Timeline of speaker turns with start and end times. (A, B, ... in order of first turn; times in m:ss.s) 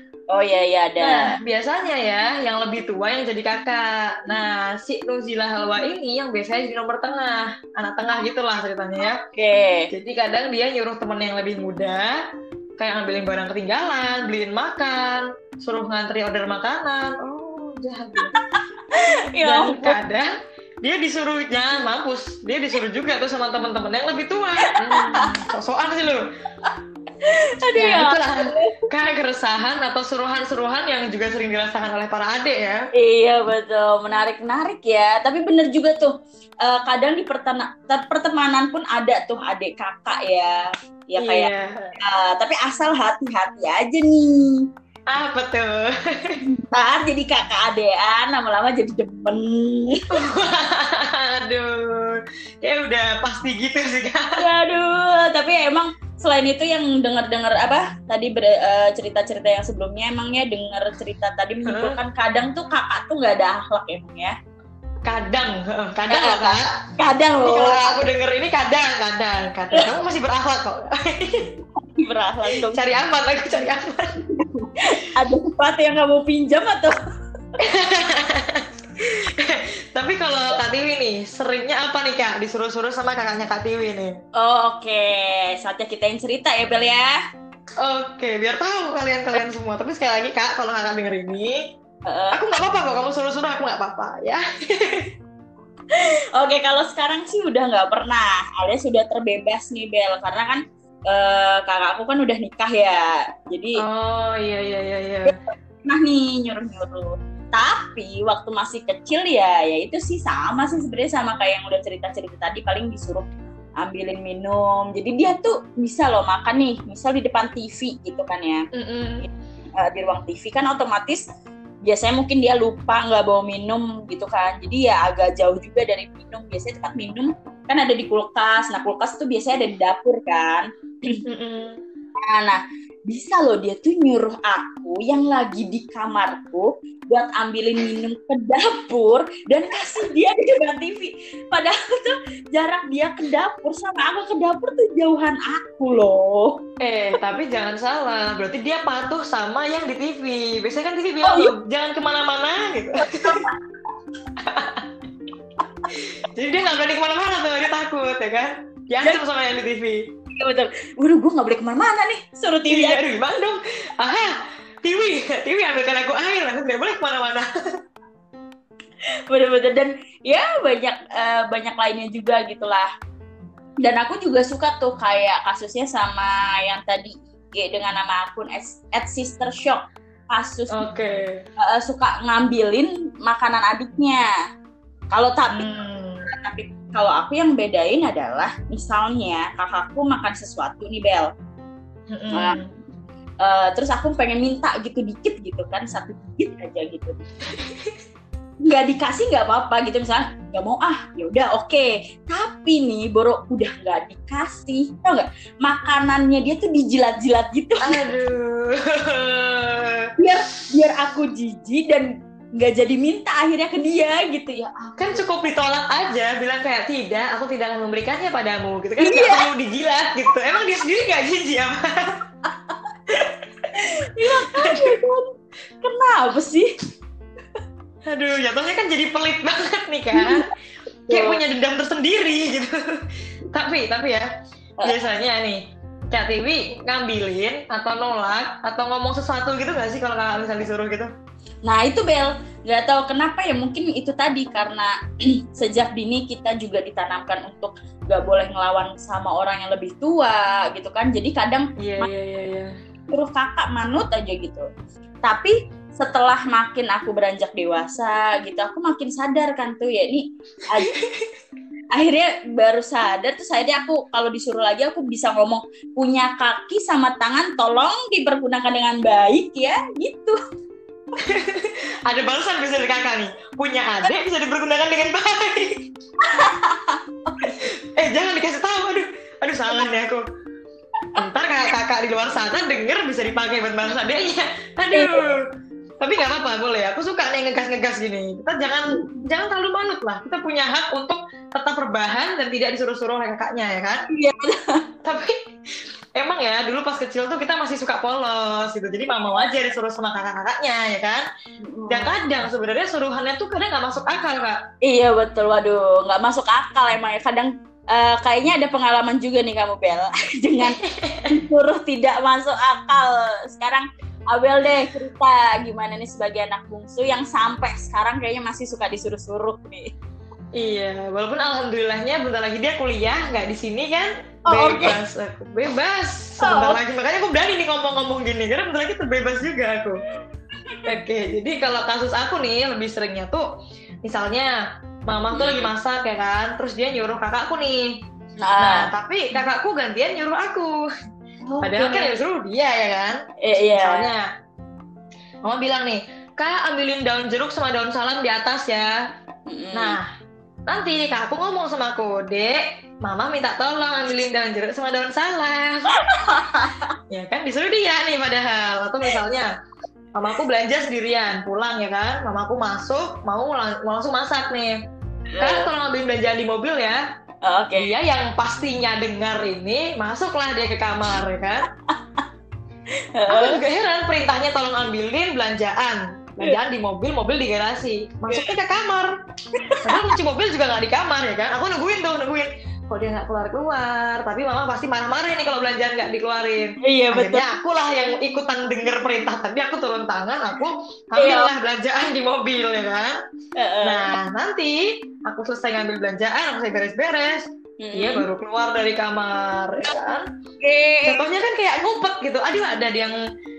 0:00.3-0:01.4 A
0:01.0-0:09.2 B
0:09.4-0:09.9 A
0:09.9-0:12.2 B
0:12.8-0:18.3 B
0:18.2-0:20.0 A
0:19.4-0:20.3 B
0:20.8-0:26.3 B
0:24.6-0:25.4 A
0:26.6-0:28.9 A
0:27.8-0:32.9 B
0:33.0-0:44.6 A
0:41.2-0:42.0 B
0:45.1-0:46.4 B
0:46.6-0:50.1 A
0:50.1-0:54.4 B
0:54.4-1:04.4 A
1:01.7-1:02.0 B
1:05.0-1:06.8 B
1:06.1-1:08.1 A
1:07.4-1:11.5 B
1:11.8-1:12.8 A
1:12.6-1:14.2 B
1:14.3-1:17.0 A
1:17.6-1:24.2 B
1:24.4-1:27.2 A
1:27.8-1:31.6 B
1:32.1-1:32.4 A
1:32.3-1:35.1 B
1:35.9-1:43.8 A
1:43.8-1:45.4 B
1:45.3-1:58.7 A
1:58.7-1:59.3 B
1:59.8-2:01.2 A
2:01.8-2:11.2 A
2:11.3-2:11.8 B
2:12.2-2:26.6 A
2:26.8-2:33.5 B
2:31.2-2:31.5 A
2:33.0-2:33.6 A
2:34.4-2:34.9 B
2:35.9-2:40.1 B
2:40.3-2:43.0 A
2:42.7-2:47.5 B
2:49.3-2:52.9 A
2:53.8-3:00.8 A
3:00.7-3:01.4 B
3:01.6-3:04.3 A
3:05.1-3:05.7 A
3:05.5-3:06.3 B
3:06.3-3:11.3 A
3:12.1-3:12.7 B
3:12.3-3:12.6 A
3:13.4-3:17.2 A
3:17.6-3:17.9 B
3:18.6-3:28.0 A
3:27.8-3:30.1 B
3:30.2-3:35.2 A
3:35.0-3:42.2 B
3:39.0-3:39.5 A
3:42.7-3:46.7 A
3:44.2-3:45.0 B
3:48.1-3:50.5 B
3:50.1-3:50.5 A
3:51.1-3:51.4 A
3:51.1-3:54.3 B
3:54.8-4:01.1 B
4:01.6-4:12.1 A
4:11.8-4:12.7 B
4:13.1-4:14.7 A
4:15.2-4:21.0 A
4:20.8-4:21.3 B
4:21.9-4:30.4 A
4:31.2-4:35.9 B
4:36.2-4:37.7 A
4:37.4-4:40.2 B
4:41.2-4:45.5 B
4:44.9-4:45.3 A
4:46.0-4:54.1 B
4:54.1-4:54.9 A
4:55.0-4:55.4 B
4:56.2-5:01.2 B
5:01.6-5:02.2 A
5:01.9-5:04.6 B
5:04.8-5:19.9 A
5:10.6-5:11.4 B
5:20.6-5:30.0 B
5:24.5-5:25.0 A
5:26.4-5:26.8 A
5:30.8-5:33.5 B
5:34.0-5:38.0 B
5:35.3-5:35.7 A
5:38.4-5:38.9 A
5:38.6-5:40.9 B
5:41.4-5:42.1 A
5:41.6-5:43.2 B
5:43.4-5:44.1 A
5:43.7-5:44.3 B
5:45.4-5:49.0 B
5:49.5-5:50.0 A
5:49.7-5:50.1 B
5:50.7-5:56.2 B
5:55.9-5:57.0 A
5:57.1-5:59.5 B
6:00.1-6:04.8 B
6:05.3-6:05.7 A
6:05.4-6:07.0 B
6:07.4-6:07.9 A
6:07.8-6:11.7 B
6:11.9-6:12.2 A
6:13.1-6:13.6 A
6:13.3-6:19.1 B
6:18.3-6:18.6 A
6:19.6-6:20.1 A
6:19.8-6:33.2 B
6:26.8-6:27.5 A
6:31.2-6:31.5 A
6:33.6-6:34.1 A
6:33.8-6:40.3 B
6:37.8-6:38.3 A
6:40.6-6:41.2 A
6:41.1-6:43.2 B